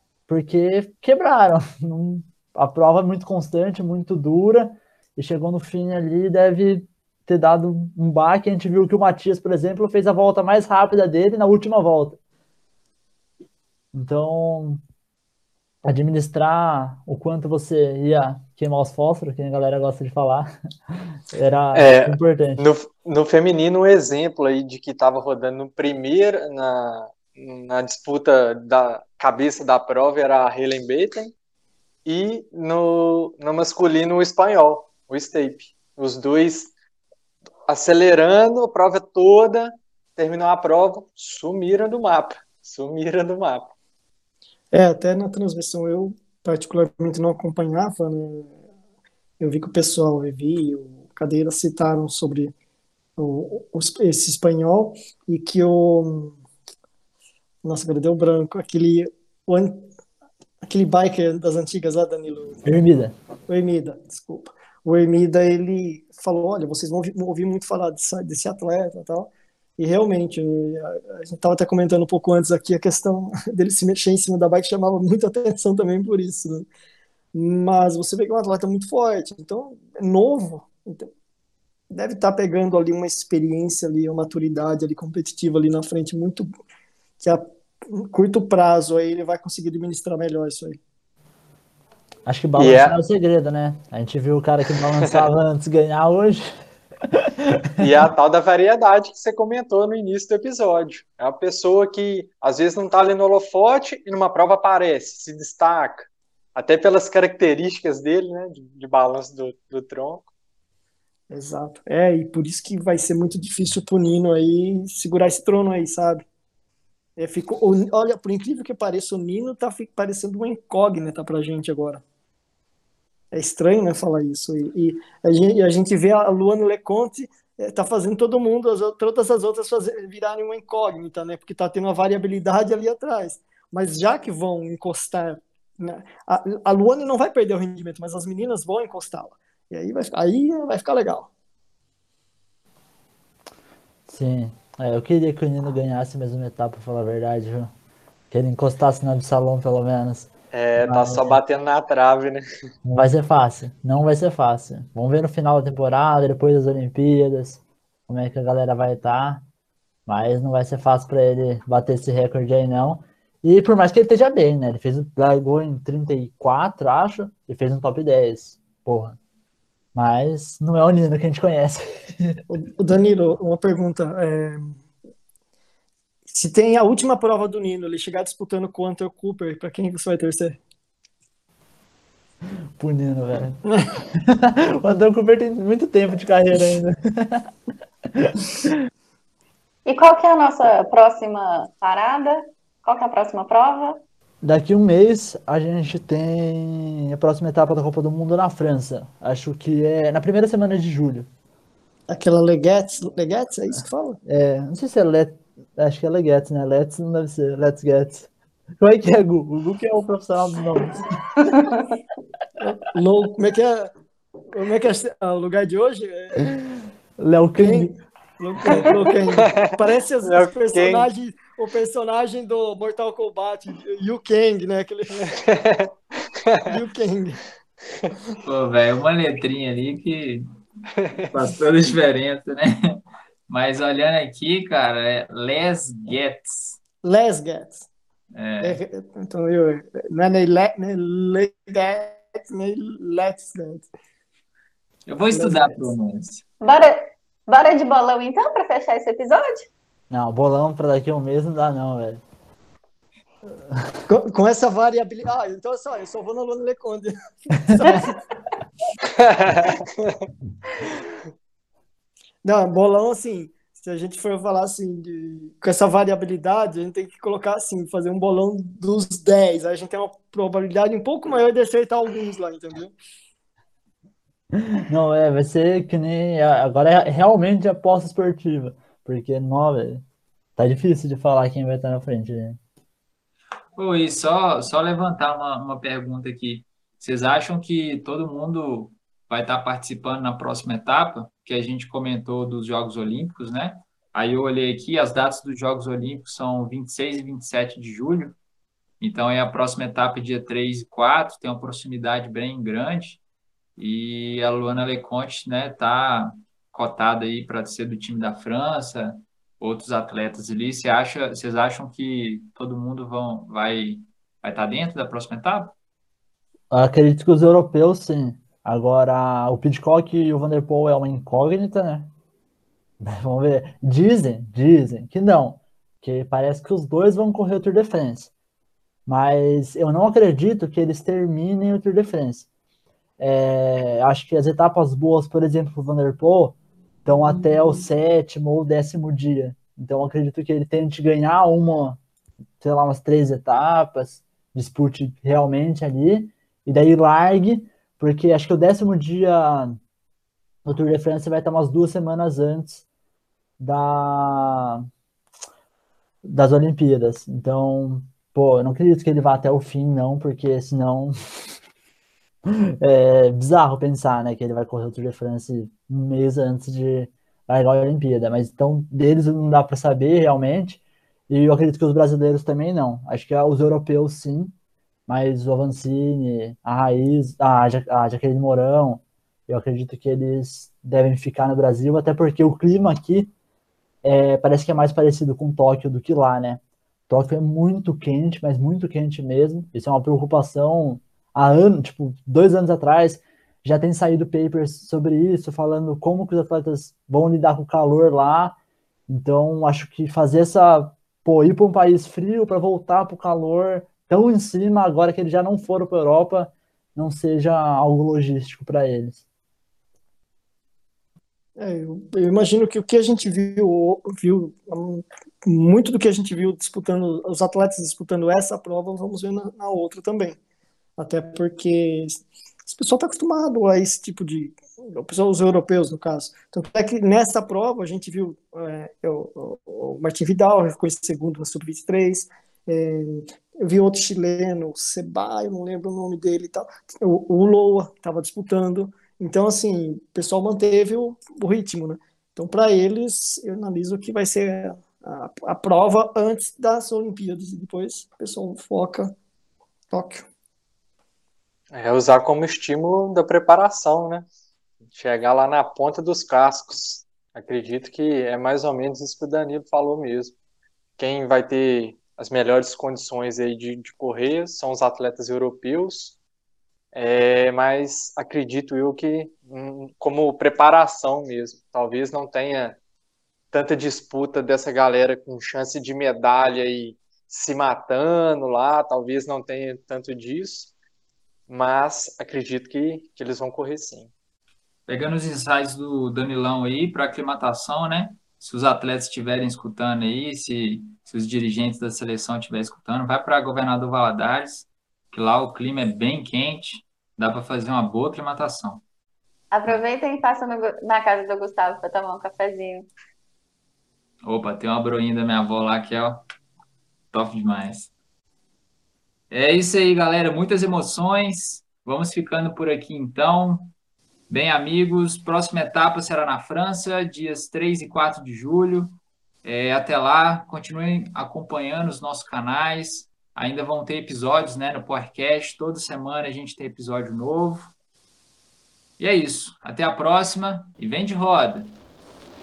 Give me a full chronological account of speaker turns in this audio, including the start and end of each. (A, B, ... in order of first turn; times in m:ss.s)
0:00.3-0:12.2 A
0:13.9-0:14.8 A
0:15.8-0:20.5 A
0:21.3-0:22.6 A
0:21.7-0:31.3 B
0:32.0-0:36.7 B
0:37.7-0:43.7 B
0:44.7-0:48.5 C
0:49.4-0:52.5 C
0:53.2-0:56.4 C
0:57.6-0:59.9 C
1:00.6-1:02.6 C
1:02.6-1:03.1 A
1:03.5-1:16.7 C
1:17.3-1:21.1 C
1:21.9-1:26.5 C
1:27.2-1:30.8 C
1:32.2-1:36.5 A
1:32.6-1:33.0 B
1:37.8-1:50.3 B
1:51.3-1:56.2 C
1:57.2-2:02.0 C
2:03.3-2:21.3 C
2:24.1-2:27.7 A
2:28.3-2:31.4 A
2:30.5-2:32.4 B
2:32.8-2:39.4 A
2:40.1-2:49.2 A
2:49.9-2:52.4 A
2:52.5-2:54.8 C
2:56.3-3:00.6 C
3:02.8-3:03.6 A
3:04.1-3:07.4 A
3:08.2-3:08.8 A
3:09.8-3:14.0 D
3:14.4-3:21.3 A
3:22.1-3:24.2 C
3:24.2-3:28.3 A
3:28.8-3:31.1 A
3:31.4-3:31.9 D
3:32.6-3:33.9 C
3:34.5-3:36.4 C
3:37.2-3:37.9 A
3:37.6-3:45.4 C
3:39.4-3:41.1 B
3:45.2-3:45.9 B
3:46.4-3:46.7 B
3:46.6-3:47.4 C
3:48.4-3:50.4 E
3:51.0-3:51.3 B
3:51.3-3:56.8 E
3:57.0-3:57.9 C
3:58.3-3:58.8 E
3:58.6-4:03.9 C
4:05.1-4:06.4 E
4:05.3-4:05.9 C
4:06.6-4:09.7 D
4:10.1-4:12.2 A
4:14.1-4:18.2 C
4:19.2-4:20.0 B
4:22.4-4:32.9 C
4:34.9-4:40.0 A
4:40.6-4:42.6 A
4:43.8-4:58.4 E
4:59.0-5:03.2 E
5:03.8-5:15.7 E
5:16.7-5:22.1 A
5:23.0-5:28.3 A
5:29.0-5:32.5 A
5:33.2-5:42.0 A
5:42.6-5:49.8 A
5:50.6-5:52.8 A
5:53.6-5:54.8 A
5:56.2-6:01.1 A
6:02.8-6:14.5 A
6:15.1-6:23.3 A
6:24.0-6:38.6 A
6:39.1-6:49.2 A
6:51.6-7:00.4 C
7:01.0-7:29.2 C
7:29.9-7:30.3 C
7:31.7-7:34.2 B
7:34.9-7:40.3 B
7:41.0-7:46.2 B
7:46.9-7:52.8 B
7:53.5-8:00.7 B
8:01.5-8:04.1 B
8:04.9-8:18.8 E
8:19.5-8:22.9 D
8:24.2-8:26.2 E
8:27.1-8:27.9 E
8:29.3-8:33.7 E
8:34.3-8:47.7 E
8:49.0-8:51.8 E